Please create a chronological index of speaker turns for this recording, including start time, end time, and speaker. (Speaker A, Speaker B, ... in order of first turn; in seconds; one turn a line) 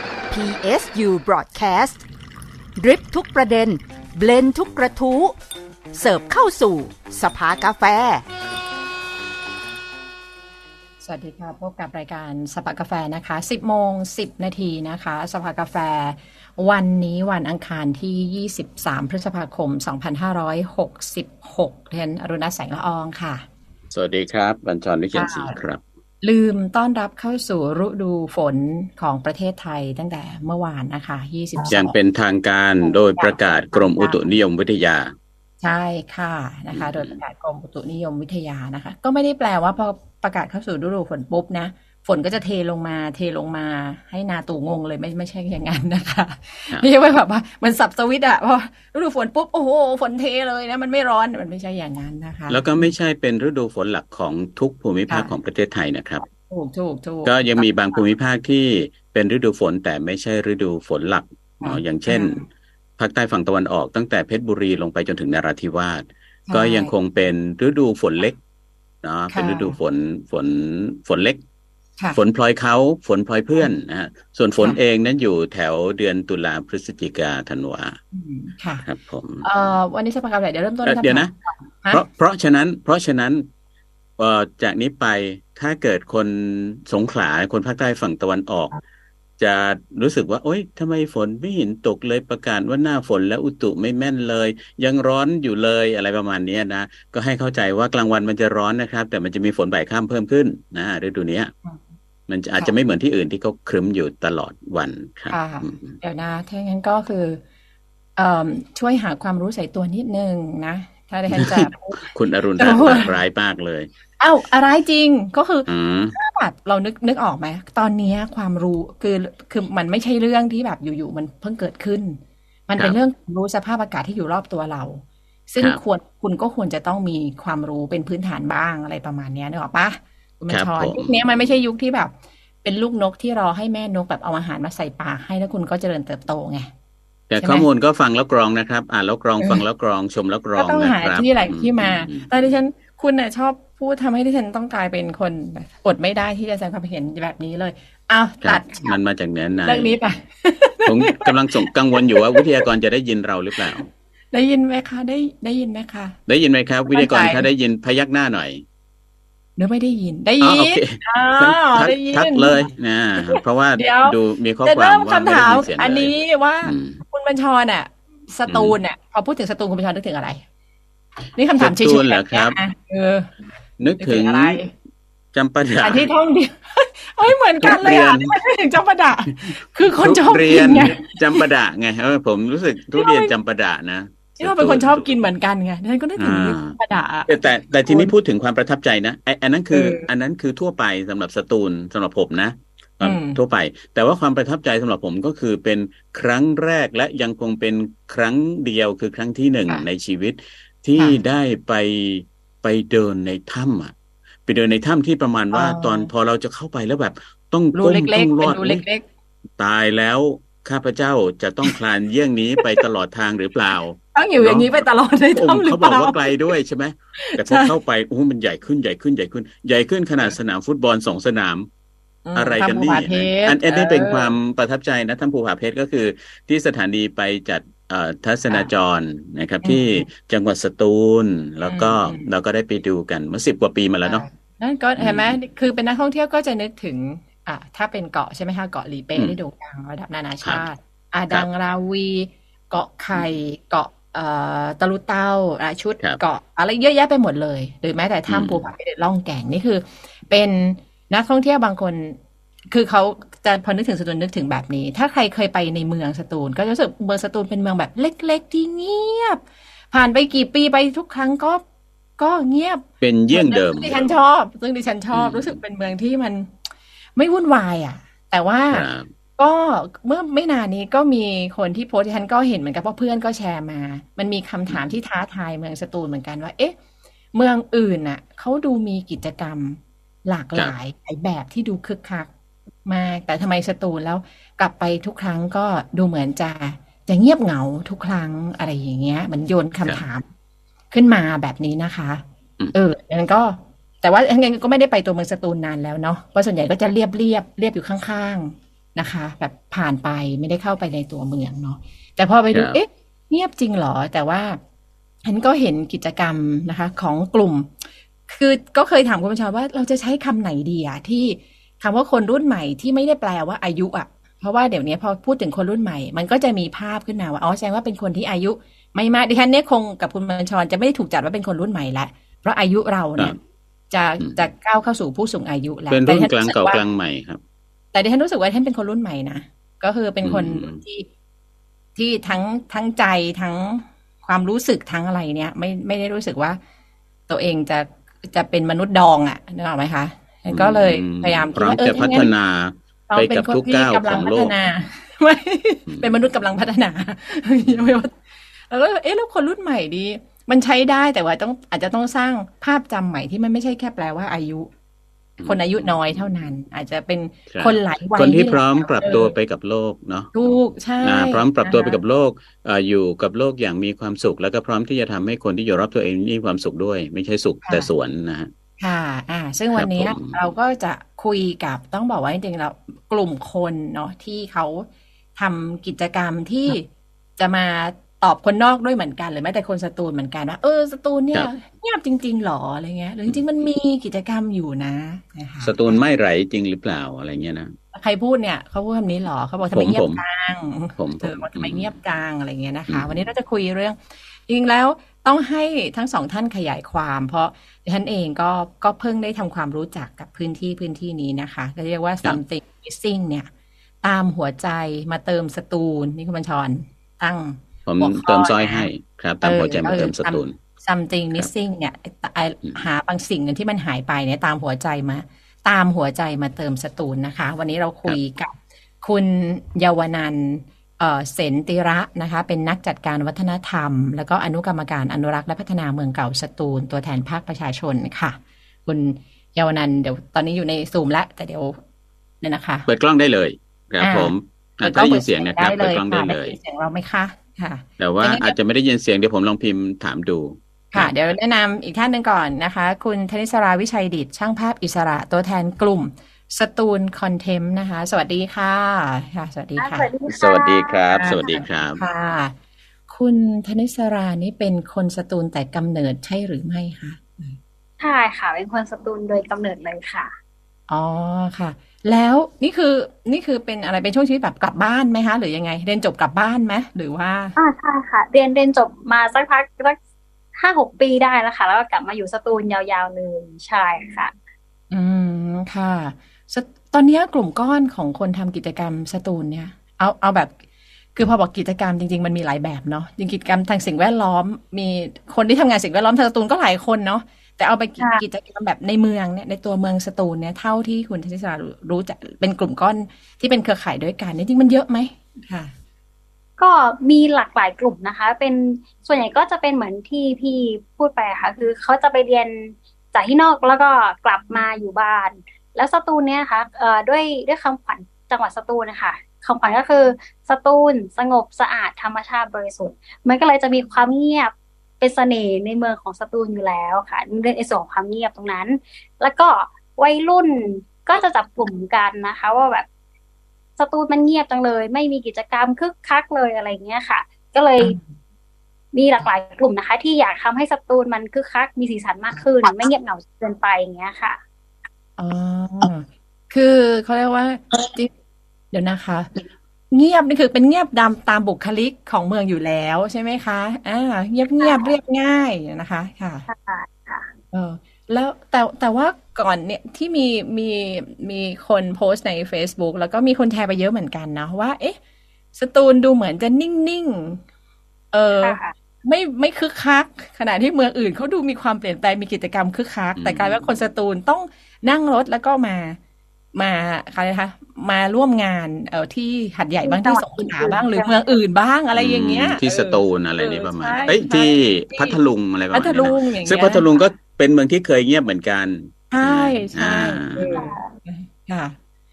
Speaker A: 0.3-2.0
Speaker A: 2.8-5.3
Speaker A: 5.9-8.2
Speaker B: 11.0-23.4
Speaker C: 23.9-25.8
Speaker B: 25.1-25.6
Speaker B: 26.2-31.9
Speaker C: 31.7-35.1
Speaker B: 33.2-34.2
Speaker B: 35.6-52.9
Speaker C: 36.7-37.2
Speaker C: 52.5-56.3
Speaker B: 55.1-55.3
Speaker B: 56.5-58.0
Speaker C: 57.2-62.4
Speaker B: 61.6-62.4
Speaker C: 63.0-68.4
Speaker B: 66.5-66.9
Speaker C: 69.0-71.4
Speaker B: 69.3-69.8
Speaker C: 72.2-78.0
Speaker B: 78.1-78.9
Speaker C: 78.8-79.5
Speaker B: 79.4-82.1
Speaker C: 80.8-81.3
Speaker C: 81.9-83.5
Speaker C: 84.2-88.8
Speaker C: 89.4-101.5
Speaker C: 102.3-106.0
Speaker B: 105.3-107.4
Speaker B: 108.2-112.0
Speaker C: 111.3-113.9
Speaker B: 112.6-113.2
Speaker B: 114.2-132.1
Speaker C: 115.7-116.1
Speaker C: 130.5-131.6
Speaker B: 132.6-136.7
Speaker C: 137.3-142.5
Speaker B: 137.4-137.7
Speaker B: 140.6-149.0
Speaker C: 148.4-150.0
Speaker B: 149.6-152.6
Speaker C: 150.8-153.9
Speaker B: 153.8-156.2
Speaker C: 156.3-158.6
Speaker B: 156.9-157.5
Speaker B: 159.6-162.6
Speaker C: 160.4-167.0
Speaker B: 163.2-170.4
Speaker C: 168.5-168.8
Speaker B: 171.3-173.4
Speaker C: 171.6-172.6
Speaker C: 173.8-174.6
Speaker B: 174.0-174.7
Speaker C: 175.3-176.1
Speaker B: 175.8-181.5
Speaker C: 177.6-178.3
Speaker C: 179.5-185.1
Speaker B: 182.9-183.3
Speaker B: 184.4-188.1
Speaker C: 186.2-186.8
Speaker C: 187.3-203.9
Speaker B: 189.7-190.1
Speaker B: 193.0-193.4
Speaker C: 204.4-208.8
Speaker B: 205.5-206.1
Speaker B: 207.8-209.1
Speaker C: 209.6-214.8
Speaker B: 214.2-216.3
Speaker C: 215.4-221.7
Speaker B: 217.2-217.7
Speaker B: 222.3-224.4
Speaker C: 222.3-234.2
Speaker B: 229.6-230.1
Speaker B: 231.6-232.3
Speaker B: 234.1-252.2
Speaker C: 235.0-235.3
Speaker C: 248.3-248.6
Speaker B: 252.7-261.6
Speaker B: 262.2-266.6
Speaker C: 263.0-264.2
Speaker C: 265.1-265.6
Speaker B: 267.2-276.8
Speaker C: 268.7-269.1
Speaker C: 274.7-274.9
Speaker B: 277.3-282.3
Speaker B: 282.9-290.3
Speaker B: 290.9-304.6
Speaker C: 302.5-302.8
Speaker B: 305.2-323.4
Speaker B: 323.9-326.8
Speaker C: 324.2-324.5
Speaker C: 325.9-327.4
Speaker B: 327.9-331.1
Speaker C: 330.2-330.8
Speaker B: 332.0-336.6
Speaker B: 337.3-342.3
Speaker C: 340.5-344.5
Speaker B: 343.1-354.7
Speaker C: 345.9-346.2
Speaker C: 355.4-356.3
Speaker B: 355.4-359.4
Speaker C: 357.5-360.4
Speaker B: 360.3-362.0
Speaker C: 361.0-368.5
Speaker B: 367.6-367.9
Speaker B: 368.8-386.0
Speaker C: 369.7-370.4
Speaker C: 385.6-387.7
Speaker B: 387.9-403.5
Speaker C: 389.7-390.2
Speaker C: 391.0-391.9
Speaker C: 392.9-393.3
Speaker B: 404.0-408.9
Speaker C: 407.9-410.6
Speaker B: 409.4-431.8
Speaker B: 432.4-432.9
Speaker C: 432.9-436.6
Speaker B: 434.0-438.6
Speaker C: 438.0-441.1
Speaker B: 440.9-450.1
Speaker D: 449.8-451.5
Speaker C: 450.3-452.0
Speaker B: 451.1-452.6
Speaker B: 453.1-457.6
Speaker D: 458.0-460.3
Speaker B: 460.9-467.6
Speaker D: 467.6-470.0
Speaker D: 470.6-474.3
Speaker B: 474.9-480.6
Speaker B: 481.1-495.7
Speaker D: 488.0-488.2
Speaker D: 496.6-522.9
Speaker D: 523.8-528.0
Speaker B: 527.8-528.2
Speaker D: 528.9-534.4
Speaker B: 535.2-538.1
Speaker B: 538.7-546.5
Speaker D: 544.6-544.9
Speaker D: 546.5-547.3
Speaker B: 547.5-555.0
Speaker B: 555.5-557.4
Speaker B: 558.1-566.0
Speaker D: 558.4-558.8
Speaker C: 563.2-563.7
Speaker B: 566.5-575.2
Speaker D: 569.8-571.2
Speaker C: 572.0-580.5
Speaker B: 575.7-576.9
Speaker B: 579.1-581.8
Speaker D: 580.5-580.9